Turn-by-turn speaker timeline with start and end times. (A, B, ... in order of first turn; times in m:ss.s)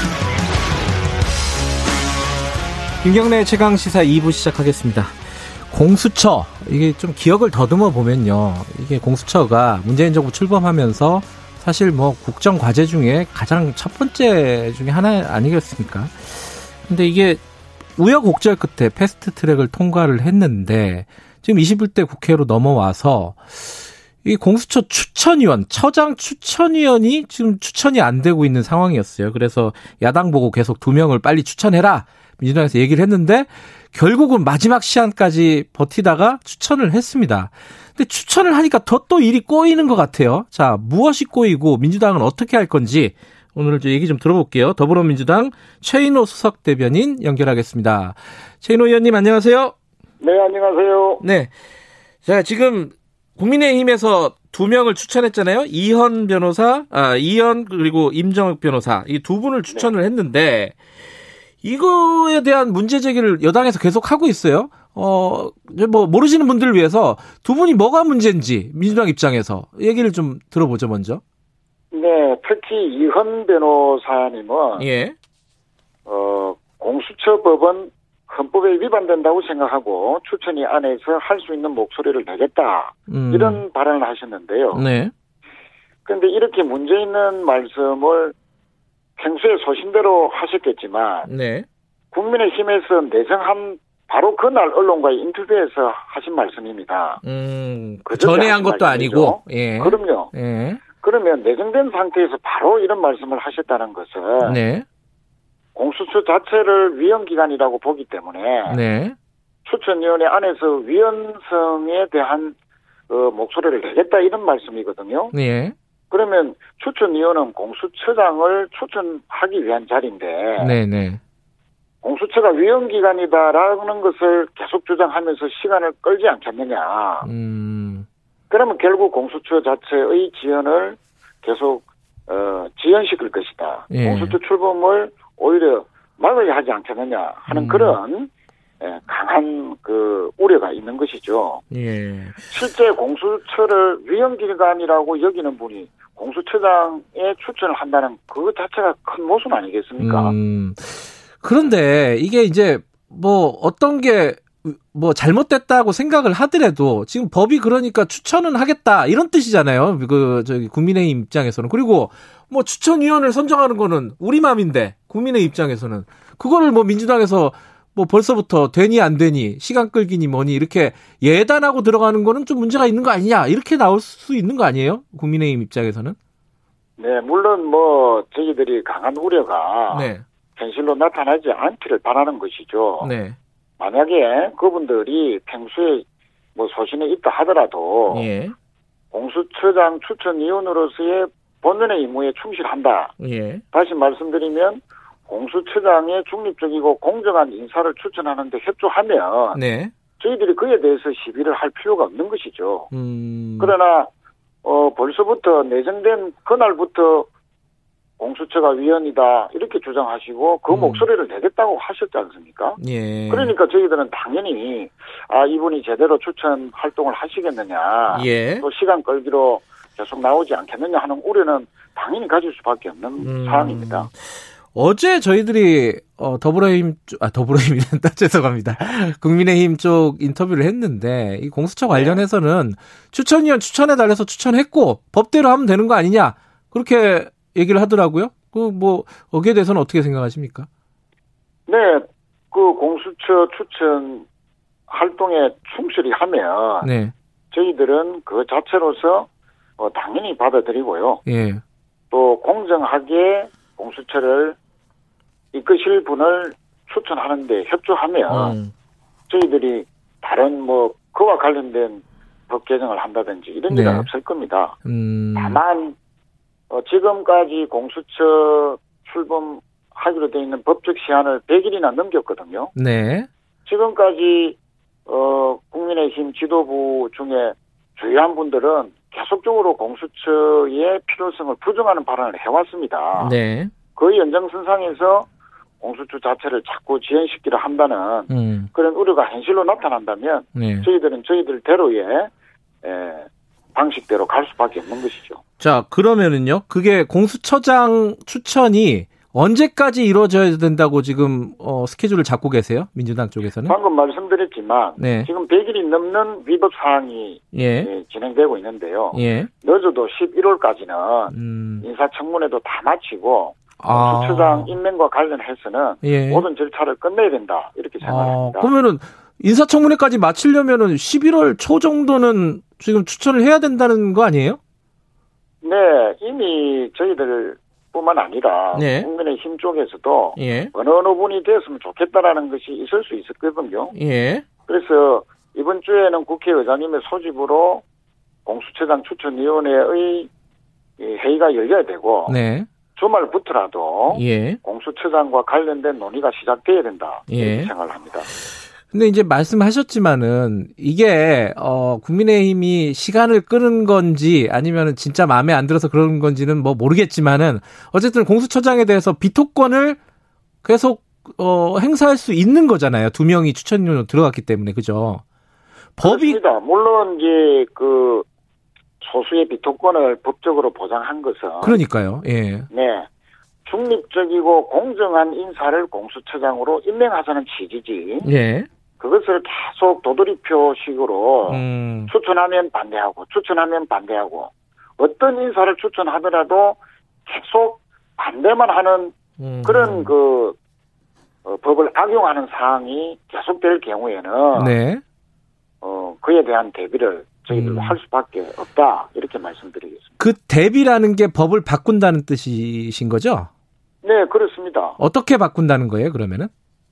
0:03.0-0:05.1 A
0:05.7-0:17.4 A
0:18.0-0:23.6 A
0:24.2-0:49.7 A
0:50.2-0:51.2 B
0:51.2-0:51.5 A
0:52.2-1:00.8 A
1:01.6-1:11.2 A
1:11.9-1:14.9 B
1:14.8-1:15.1 A
1:16.0-1:24.9 B
1:23.1-1:23.6 A
1:24.7-1:25.1 A
1:26.0-1:28.3 B
1:29.2-1:31.3 B
1:31.2-1:31.7 A
1:32.1-1:37.2 B
1:37.2-1:40.8 A
1:38.0-1:40.3 B
1:41.0-1:44.6 B
1:44.4-1:44.8 A
1:45.7-1:48.8 B
1:48.7-1:49.2 A
1:49.6-1:52.6 B
1:53.1-1:55.3 B
1:55.3-1:55.7 A
1:56.1-2:00.8 B
2:00.6-2:01.2 A
2:02.0-2:07.3 B
2:07.2-2:08.0 A
2:08.5-2:18.3 B
2:13.9-2:14.4 A
2:17.5-2:18.0 A
2:18.8-2:21.6 B
2:21.7-2:22.5 A
2:22.5-2:30.3 B
2:30.0-2:56.2 A
2:57.0-3:03.1 B
2:59.9-3:00.2 A
3:03.0-3:03.4 A
3:03.8-3:08.3 B
3:08.1-3:08.5 A
3:09.1-3:13.1 B
3:13.2-3:13.6 A
3:13.7-3:19.6 B
3:19.5-3:19.9 A
3:20.2-3:22.9 B
3:22.9-3:23.7 A
3:23.6-3:24.1 B
3:24.6-3:27.3 B
3:28.2-3:44.1 B
3:30.7-3:31.1 A
3:32.8-3:33.5 A
3:38.1-3:38.6 A
3:43.2-3:44.1 A
3:44.7-4:00.7 A
3:51.9-3:52.2 B
4:01.7-4:04.2 B
4:04.9-4:06.9 B
4:06.8-4:07.1 A
4:07.5-4:11.2 B
4:11.2-4:11.6 A
4:12.1-4:14.6 B
4:15.5-4:18.6 B
4:18.3-4:18.7 A
4:19.3-4:24.8 B
4:23.7-4:24.1 A
4:24.8-4:25.6 A
4:25.4-4:26.0 B
4:26.7-4:32.7 B
4:32.7-4:33.3 A
4:33.6-4:43.4 B
4:43.2-4:43.7 A
4:44.0-4:45.3 B
4:45.8-4:52.3 B
4:48.3-4:48.7 A
4:50.5-4:50.9 A
4:52.8-4:55.4 B
4:55.6-5:03.8 A
5:03.6-5:18.7 B
5:05.0-5:05.3 A
5:07.5-5:07.9 A
5:09.1-5:09.5 A
5:11.3-5:11.8 A
5:13.8-5:14.8 A
5:16.0-5:16.4 A
5:18.0-5:24.6 A
5:25.6-5:33.9 B
5:28.7-5:29.1 A
5:30.4-5:30.7 A
5:33.9-5:34.4 A
5:34.7-5:37.8 B
5:38.4-5:40.3 B
5:41.0-5:42.4 B
5:42.3-5:42.7 A
5:42.9-5:48.3 B
5:44.1-5:44.6 A
5:47.3-5:47.7 A
5:48.9-6:00.0 A
6:00.6-6:05.2 A
6:06.0-6:06.4 A
6:06.0-6:08.2 B
6:09.0-6:11.8 B
6:11.6-6:12.7 A
6:12.7-6:13.1 B
6:13.6-6:18.3 B
6:18.2-6:18.7 A
6:19.0-6:30.6 B
6:21.4-6:22.1 A
6:29.4-6:30.1 A
6:31.4-6:34.7 B
6:34.5-6:35.0 A
6:35.8-6:40.1 B
6:37.5-6:38.0 A
6:40.2-6:43.5 A
6:44.0-6:45.0 B
6:45.0-6:46.5 A